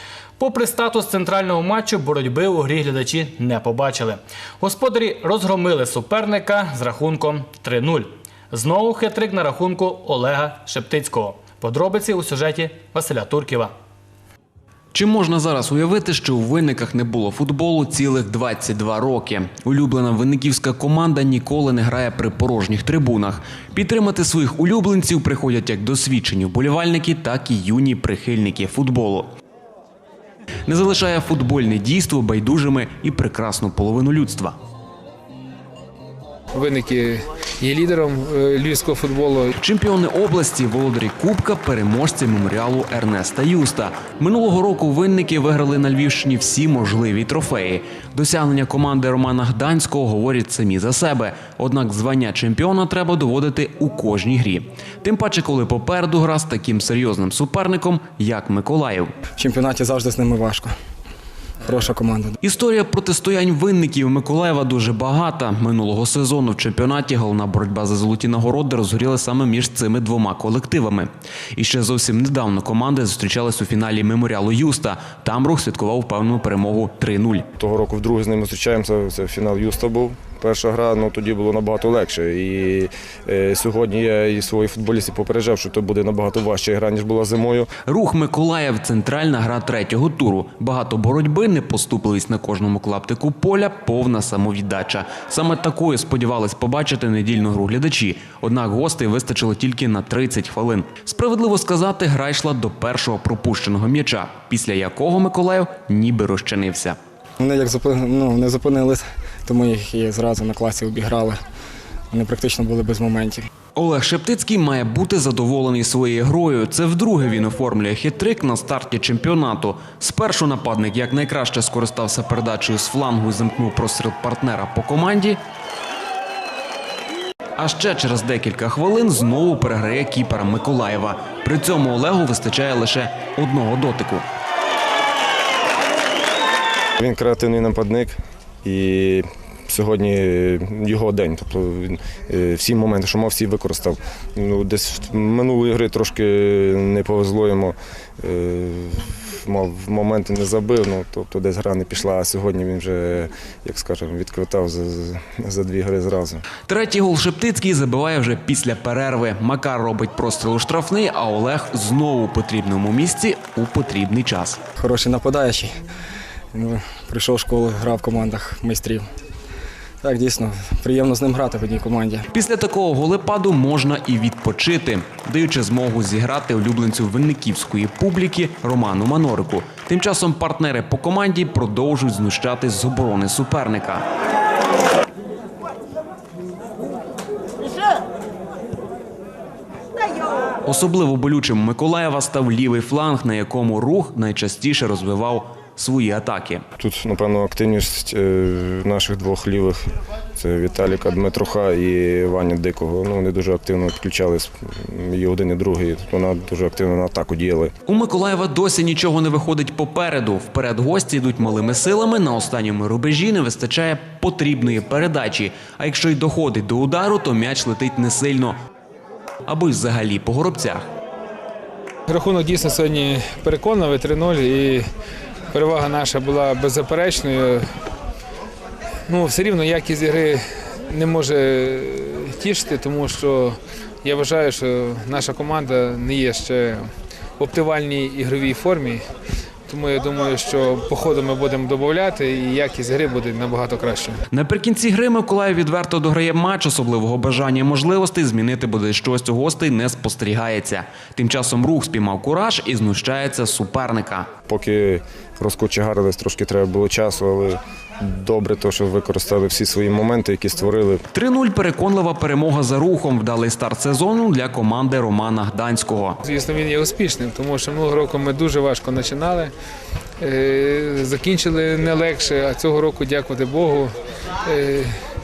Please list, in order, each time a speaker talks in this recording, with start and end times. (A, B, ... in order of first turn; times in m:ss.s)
0:00.4-0:13.7 A
0:14.9-0:29.3 B
0:30.6-0:34.6 B
0:36.5-0:39.5 C
0:39.6-0:59.1 B
0:59.4-1:00.7 D
1:01.6-1:02.4 D
1:02.4-1:17.4 B
1:17.6-1:27.7 E
1:27.8-1:47.0 B
1:47.4-1:51.4 D
1:52.1-1:53.5 D
1:53.7-2:05.4 B
2:07.6-2:14.3 B
2:17.0-2:36.4 E
2:36.6-2:44.6 B
2:44.8-2:45.7 D
2:46.5-2:49.0 D
2:50.0-2:52.3 D
2:52.3-3:04.0 B
3:10.6-3:16.6 B
3:16.8-3:19.8 E
3:20.4-3:27.7 E
3:27.8-3:38.6 B
3:39.4-3:40.8 B
3:42.1-3:44.8 C
3:45.5-3:47.6 C
3:49.1-3:56.9 C
3:57.4-3:59.0 C
3:59.6-4:04.2 C
4:04.3-4:14.3 B
4:14.5-4:21.0 E
4:21.1-4:26.2 B
4:26.2-4:29.5 C
4:30.2-4:33.9 C
4:34.4-4:34.9 C